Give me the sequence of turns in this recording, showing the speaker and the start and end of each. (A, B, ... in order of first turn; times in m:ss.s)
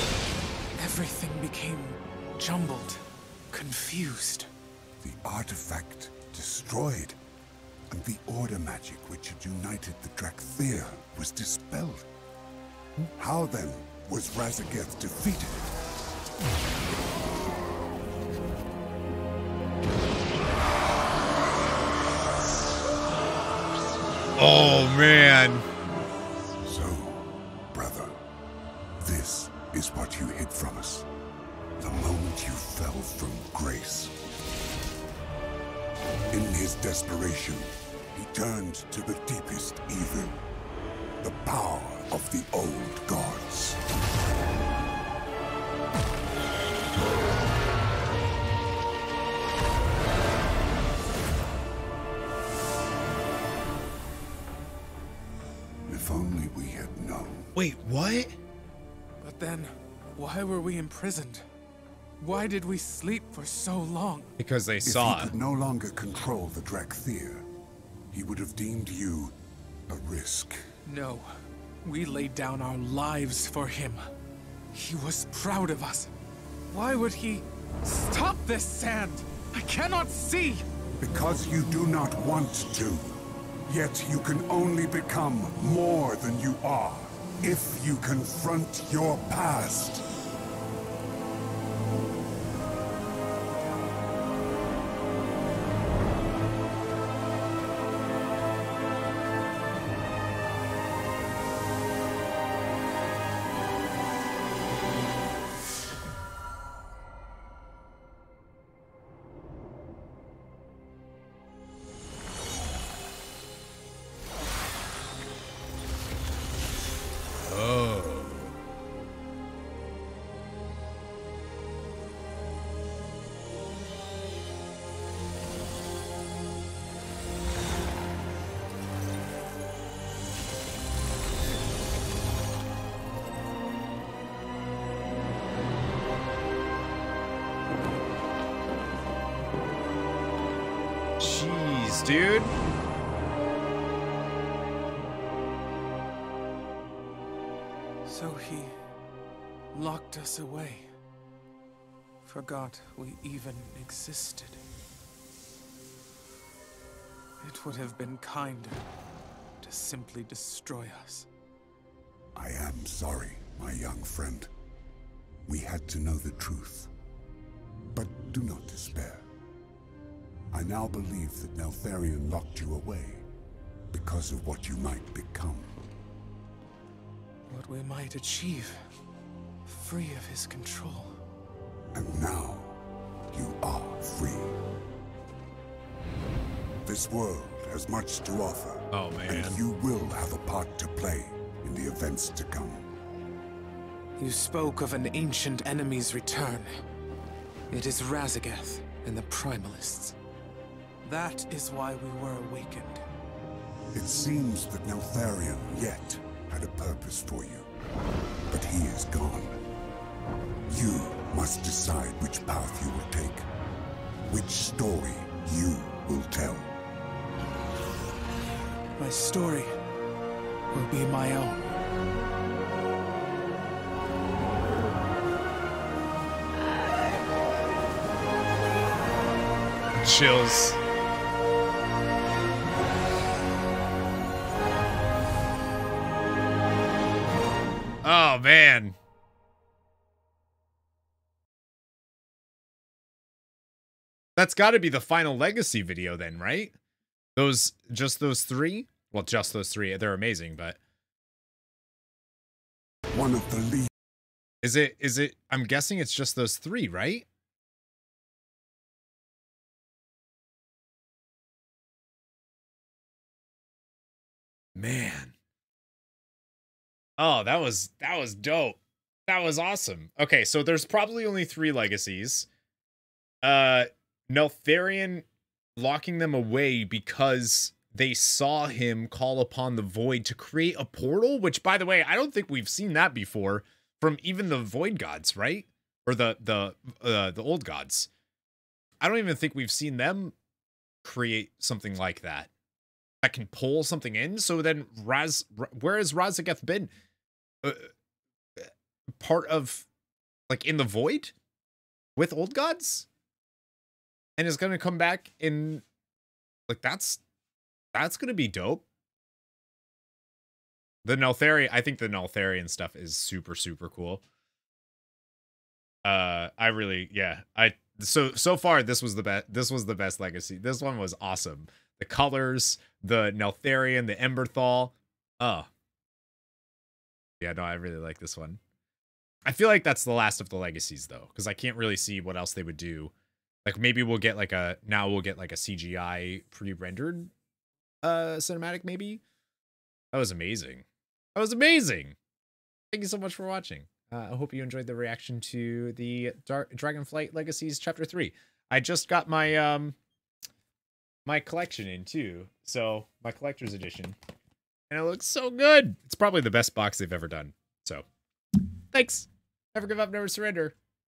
0:00.8-0:04.5 A
0:05.0-0:07.2 B
0:07.9-0:12.1 B
0:13.2-0:15.7 B
0:24.4-0:25.7 C
0:26.6-0:28.2 B
0:29.0-0:31.1 B
0:31.8-0:34.2 B
0:36.3-0:40.4 B
0:41.2-0:43.8 B
0:55.9-0:57.5 B
0:57.6-0:58.4 C
0:59.2-1:01.5 A
1:02.2-1:04.3 A
1:04.4-1:05.3 C
1:04.8-1:07.5 B
1:08.1-1:09.4 B
1:09.9-1:10.6 B
1:10.9-1:11.3 A
1:11.8-1:14.0 A
1:14.7-1:16.1 A
1:16.7-1:20.7 A
1:21.0-1:23.2 B
1:23.7-1:30.0 B
1:57.4-1:58.6 C
2:21.2-2:22.5 C
2:28.0-2:28.8 A
2:29.7-2:30.9 A
2:32.2-2:34.6 A
2:37.4-2:38.9 A
2:39.6-2:41.3 A
2:42.4-2:44.5 B
2:45.5-2:46.9 B
2:47.9-2:49.2 B
2:50.5-2:53.2 B
2:53.9-2:55.7 B
2:57.5-2:58.8 A
2:59.7-3:01.2 A
3:01.9-3:02.8 B
3:03.3-3:04.6 B
3:06.8-3:12.9 B
3:08.9-3:09.6 C
3:14.2-3:16.7 A
3:17.7-3:20.2 A
3:21.0-3:23.0 A
3:23.9-3:27.7 B
3:28.5-3:29.6 B
3:30.7-3:33.5 B
3:34.3-3:36.7 B
3:39.0-3:39.8 A
3:40.7-3:41.7 A
3:50.0-3:50.8 C
3:58.0-3:59.0 C
4:04.4-4:06.8 C
4:07.4-4:10.8 C
4:13.1-4:13.9 B
4:14.6-4:17.3 C
4:24.8-4:25.3 C
4:27.2-4:32.5 C
4:33.4-4:35.2 C
4:35.8-4:48.1 C
4:49.0-4:50.3 C
4:51.0-4:52.5 C
4:53.2-4:56.9 C
4:57.6-4:57.9 C
4:58.6-4:59.9 C
5:00.5-5:01.3 C
5:02.2-5:03.1 C
5:04.4-5:05.8 C
5:06.7-5:07.2 C
5:07.9-5:08.8 C
5:11.0-5:14.2 C
5:16.0-5:25.7 C
5:27.4-5:28.6 C
5:29.5-5:33.1 C
5:33.6-5:37.3 C
5:38.0-5:39.2 C
5:40.1-5:42.2 C
5:42.9-5:50.0 C
5:51.3-5:54.2 C
5:54.9-5:58.0 C
5:58.9-6:00.8 C